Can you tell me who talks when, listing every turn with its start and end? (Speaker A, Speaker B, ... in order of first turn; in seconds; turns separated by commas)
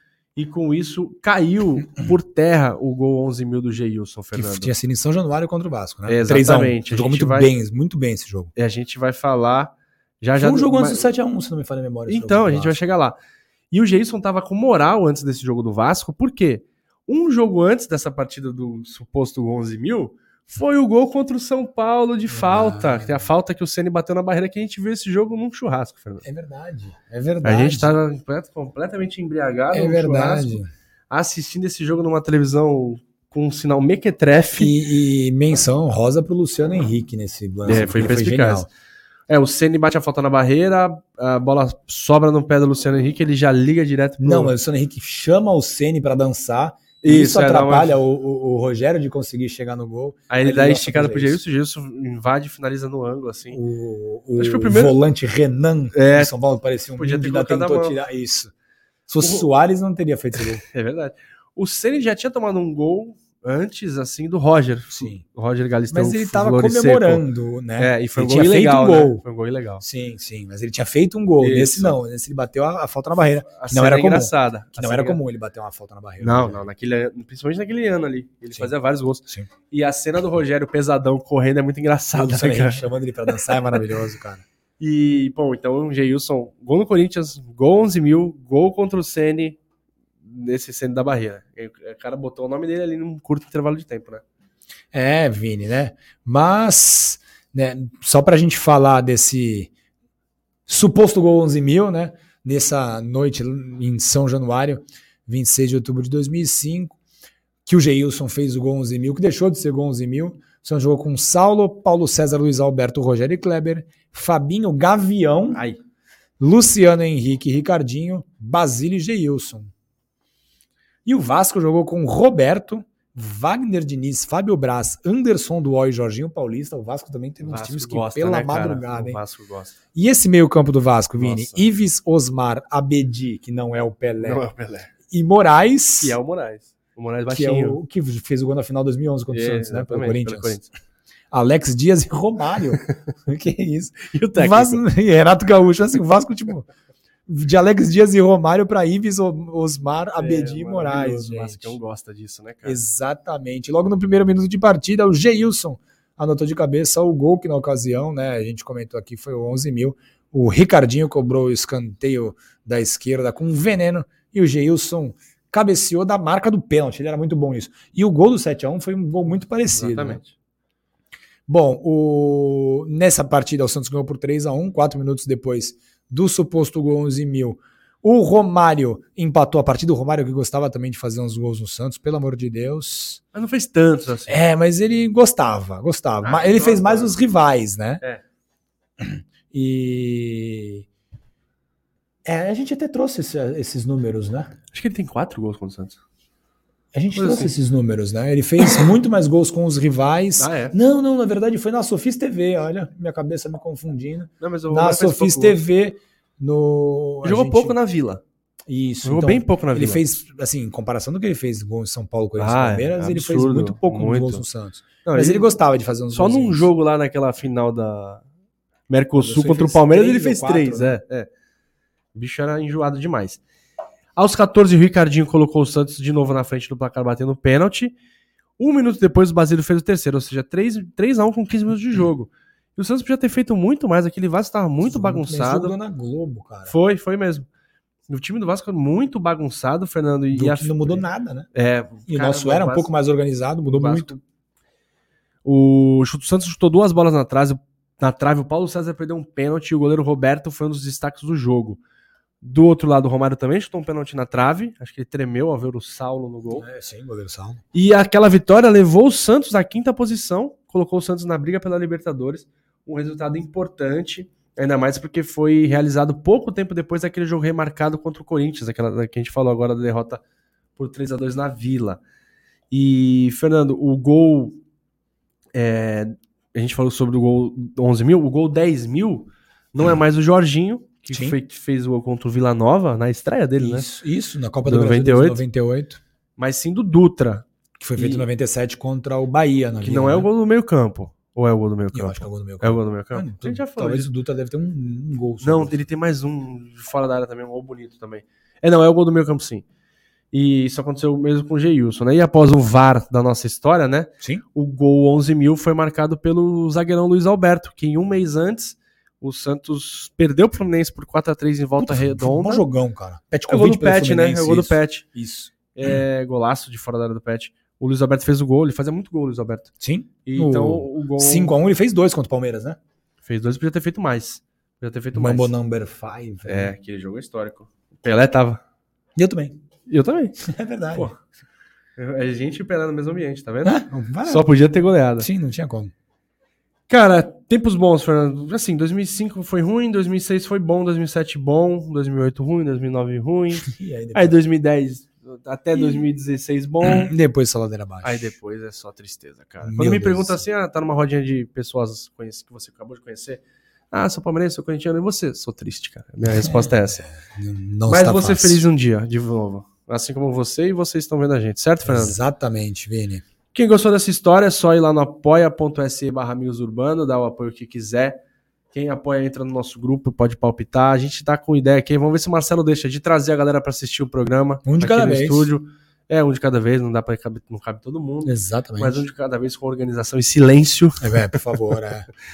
Speaker A: 0.3-4.7, Speaker B: 4.3-8.5, Speaker A: 6.0-7.5, Speaker A: 8.6-11.1, Speaker B: 10.3-12.8, Speaker A: 12.1-13.2, Speaker A: 13.7-26.2, Speaker B: 22.3-23.3, Speaker B: 26.2-27.9, Speaker A: 27.4-34.7, Speaker B: 29.7-30.7, Speaker B: 34.6-38.7, Speaker A: 37.6-38.7, Speaker A: 39.3-44.5, Speaker B: 44.2-51.4, Speaker A: 47.0-48.0, Speaker A: 50.3-53.6, Speaker B: 53.5-58.5, Speaker A: 54.4-55.0, Speaker A: 55.9-56.3, Speaker A: 57.0-58.0, Speaker B: 59.1-60.6, Speaker A: 59.2-59.5, Speaker A: 60.4-67.2, Speaker B: 64.9-65.2, Speaker B: 65.9-69.2, Speaker A: 67.8-69.8, Speaker B: 69.8-76.6, Speaker A: 71.4-72.0, Speaker A: 73.5-75.2, Speaker A: 76.2-82.8, Speaker B: 82.1-84.4, Speaker A: 84.8-89.6, Speaker A: 90.2-94.2, Speaker B: 94.9-99.7, Speaker B: 100.7-107.0, Speaker B: 107.7-115.6, Speaker A: 115.5-115.8, Speaker B: 116.4-119.7, Speaker B: 121.0-129.2, Speaker A: 127.4-129.8, Speaker B: 129.9-134.4, Speaker A: 131.2-131.7, Speaker A: 134.2-134.9, Speaker B: 135.1-136.2, Speaker A: 136.0-137.8, Speaker B: 137.3-140.6, Speaker A: 139.3-140.7, Speaker B: 141.3-146.7, Speaker A: 144.1-144.8, Speaker B: 147.3-151.8, Speaker A: 150.2-152.8, Speaker B: 152.6-170.2, Speaker A: 169.7-170.3, Speaker B: 171.5-183.2, Speaker A: 183.3-184.4, Speaker B: 184.3-188.0, Speaker A: 186.2-187.2, Speaker B: 189.0-190.8, Speaker B: 192.2-194.5, Speaker A: 194.7-196.0, Speaker B: 196.9-207.8, Speaker A: 197.2-197.5, Speaker A: 200.4-200.8, Speaker A: 204.4-205.6, Speaker A: 207.2-208.2, Speaker B: 208.7-216.7, Speaker A: 209.0-210.0, Speaker A: 212.4-214.4, Speaker A: 215.0-215.5, Speaker A: 216.1-218.2, Speaker A: 218.9-221.3, Speaker B: 219.2-221.0, Speaker A: 222.1-223.4, Speaker A: 224.2-227.9, Speaker A: 228.6-235.8, Speaker B: 234.8-236.7, Speaker A: 236.7-237.4, Speaker A: 238.1-242.9, Speaker B: 240.3-241.5, Speaker B: 242.1-244.2, Speaker A: 243.7-244.2, Speaker A: 245.4-251.8, Speaker A: 252.4-256.6, Speaker B: 256.5-257.6, Speaker A: 257.7-270.2, Speaker A: 270.8-272.0, Speaker A: 272.7-274.6, Speaker A: 275.5-283.9, Speaker B: 281.1-281.4, Speaker B: 283.6-286.0, Speaker A: 284.6-285.4, Speaker A: 286.4-287.4, Speaker B: 287.8-290.3, Speaker A: 287.9-288.3, Speaker A: 289.8-294.1, Speaker B: 291.9-295.8, Speaker A: 295.4-299.6, Speaker A: 300.3-312.7, Speaker B: 311.8-315.9, Speaker A: 313.5-315.0, Speaker A: 315.7-319.7, Speaker B: 319.8-322.8, Speaker A: 320.2-321.5, Speaker A: 323.2-325.5, Speaker B: 325.1-326.7, Speaker A: 326.4-328.6, Speaker B: 329.1-329.6, Speaker A: 329.9-330.4, Speaker B: 330.4-331.1, Speaker A: 332.0-335.3, Speaker B: 333.6-334.4, Speaker B: 335.2-335.9, Speaker A: 336.9-347.1, Speaker B: 343.6-344.4, Speaker B: 345.7-346.0, Speaker B: 346.8-348.3, Speaker A: 348.0-357.0, Speaker B: 349.6-350.4, Speaker B: 356.3-358.6, Speaker A: 357.9-362.2, Speaker B: 361.9-363.2, Speaker A: 363.5-368.2, Speaker A: 368.7-381.4, Speaker B: 374.6-375.5, Speaker B: 378.2-379.0, Speaker B: 381.0-382.1